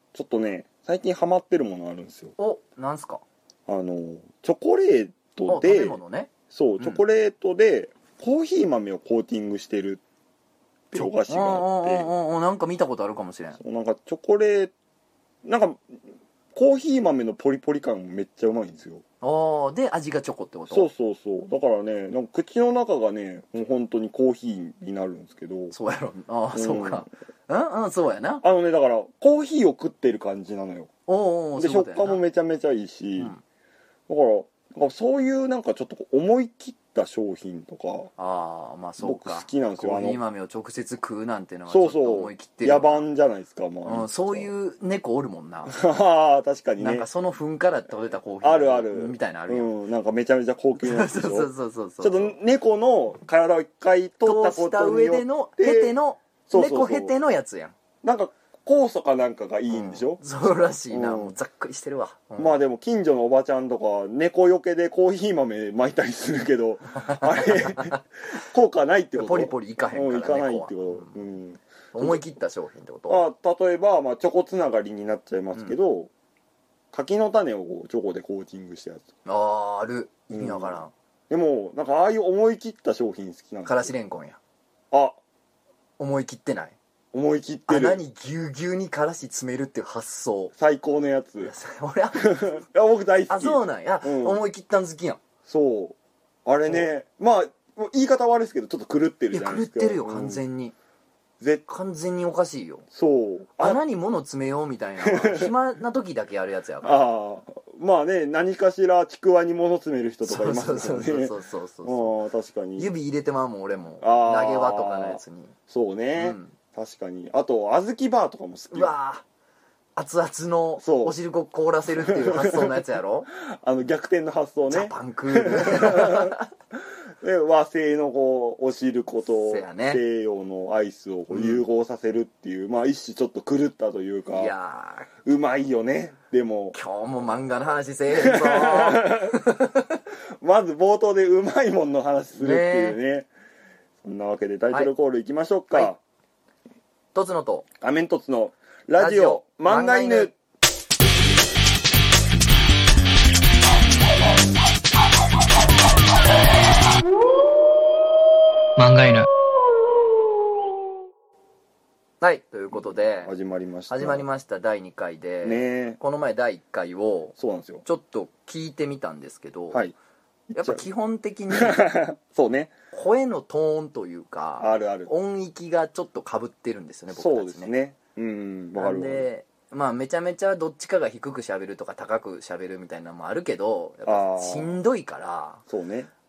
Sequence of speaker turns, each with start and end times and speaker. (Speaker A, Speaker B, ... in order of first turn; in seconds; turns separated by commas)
Speaker A: 0.1-2.4, Speaker B: 2.4-3.2, Speaker A: 3.7-10.0, Speaker B: 5.5-7.0, Speaker A: 10.9-12.1, Speaker B: 10.9-13.6, Speaker A: 13.6-14.7, Speaker A: 15.4-16.0, Speaker A: 16.6-19.0, Speaker B: 19.2-20.9, Speaker A: 20.7-25.8, Speaker B: 25.7-28.4, Speaker A: 26.5-27.1, Speaker A: 28.4-30.9, Speaker B: 31.1-32.2, Speaker A: 31.6-33.4, Speaker B: 33.2-33.4, Speaker A: 34.1-38.1, Speaker B: 38.2-43.1, Speaker A: 39.0-40.2, Speaker A: 41.7-44.5, Speaker B: 43.8-45.8, Speaker A: 45.7-47.1, Speaker B: 46.8-49.7, Speaker A: 48.4-56.0, Speaker B: 50.8-52.4, Speaker B: 54.2-57.8, Speaker A: 56.5-57.1, Speaker A: 58.0-61.4, Speaker B: 59.7-62.6, Speaker A: 62.4-72.2, Speaker B: 67.0-68.0, Speaker B: 69.2-71.2, Speaker B: 71.9-73.2, Speaker A: 73.1-76.1, Speaker A: 76.9-79.0, Speaker B: 79.2-80.9, Speaker A: 80.3-83.9, Speaker B: 83.7-84.4, Speaker A: 84.9-85.2, Speaker B: 86.0-86.8, Speaker A: 87.1-88.0, Speaker B: 87.7-90.5, Speaker A: 90.6-91.5, Speaker B: 91.4-92.6, Speaker A: 92.2-94.4, Speaker B: 93.3-95.2, Speaker A: 95.5-100.4, Speaker B: 99.3-100.7, Speaker A: 101.4-101.7, Speaker B: 101.7-102.9, Speaker A: 102.9-103.8, Speaker B: 103.6-107.0, Speaker A: 105.0-105.5, Speaker A: 106.8-112.9, Speaker B: 110.3-112.1, Speaker B: 112.8-115.5, Speaker A: 114.0-118.9, Speaker B: 116.2-116.5, Speaker B: 118.7-119.2, Speaker B: 120.0-123.3, Speaker A: 120.8-121.2, Speaker A: 121.9-122.8, Speaker A: 123.4-126.4, Speaker B: 124.7-126.5, Speaker A: 127.2-134.5, Speaker B: 129.3-130.0, Speaker B: 131.3-131.6, Speaker B: 134.3-135.1, Speaker A: 135.2-136.8, Speaker B: 136.7-140.0, Speaker A: 138.1-139.4, Speaker A: 140.4-143.3, Speaker B: 142.4-143.0, Speaker A: 144.0-146.0, Speaker B: 147.2-147.7, Speaker A: 147.8-150.3, Speaker B: 148.9-150.3, Speaker B: 162.2-163.3, Speaker A: 162.7-164.2, Speaker B: 163.9-169.8, Speaker A: 165.4-166.0, Speaker A: 167.3-167.8, Speaker A: 170.5-170.9, Speaker B: 170.6-171.9, Speaker A: 171.5-172.7, Speaker B: 172.9-177.7, Speaker A: 174.6-175.1, Speaker A: 177.1-179.3, Speaker B: 178.8-185.6, Speaker A: 184.1-184.8, Speaker A: 185.7-186.1